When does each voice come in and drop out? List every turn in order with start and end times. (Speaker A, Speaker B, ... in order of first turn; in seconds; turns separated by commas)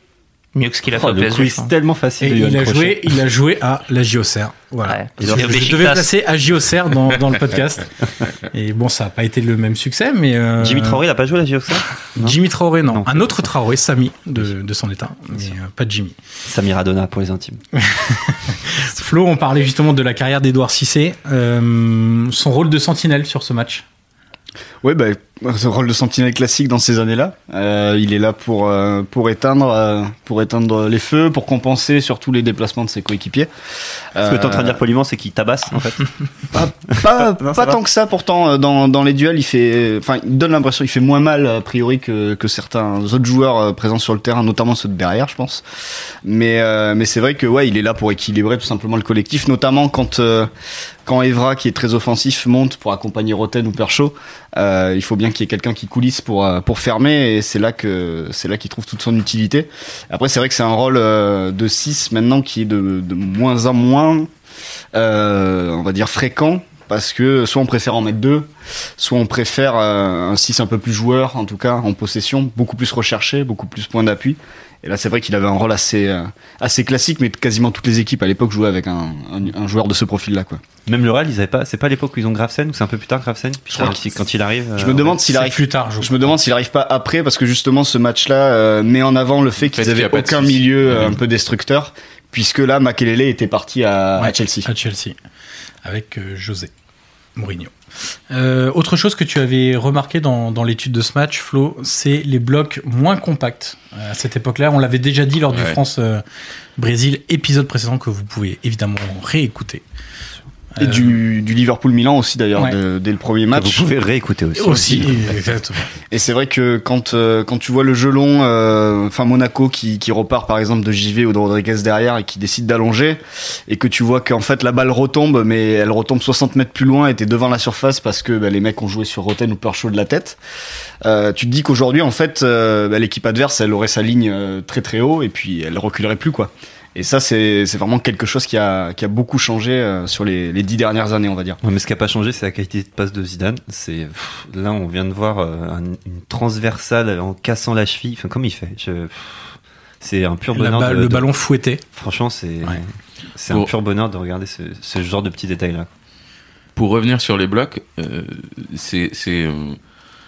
Speaker A: 0.6-1.7, Speaker B: 0.9-3.2, Speaker C: 2.2-11.0, Speaker A: 4.9-6.1, Speaker B: 5.2-5.8, Speaker B: 10.6-13.5, Speaker C: 12.2-16.2, Speaker B: 16.4-17.6, Speaker C: 17.8-23.9, Speaker D: 24.8-33.5, Speaker D: 34.1-34.8, Speaker B: 34.2-36.1, Speaker D: 36.5-45.6, Speaker B: 36.9-37.8, Speaker D: 46.2-50.5, Speaker D: 51.1-64.3, Speaker D: 65.0-80.6, Speaker B: 80.9-85.2, Speaker D: 83.7-84.0, Speaker D: 84.8-94.7, Speaker C: 85.3-86.3, Speaker E: 89.6-91.2, Speaker C: 94.2-95.2, Speaker C: 95.8-96.7, Speaker C: 97.4-97.7, Speaker C: 98.3-106.2, Speaker E: 105.5-105.8, Speaker C: 106.8-109.8, Speaker C: 110.8-111.2, Speaker D: 110.8-113.8, Speaker B: 113.5-115.3, Speaker C: 114.5-115.9, Speaker D: 116.1-130.4, Speaker D: 131.0-141.6, Speaker B: 141.6-151.3, Speaker C: 150.6-151.8, Speaker B: 151.9-155.9, Speaker E: 156.8-159.8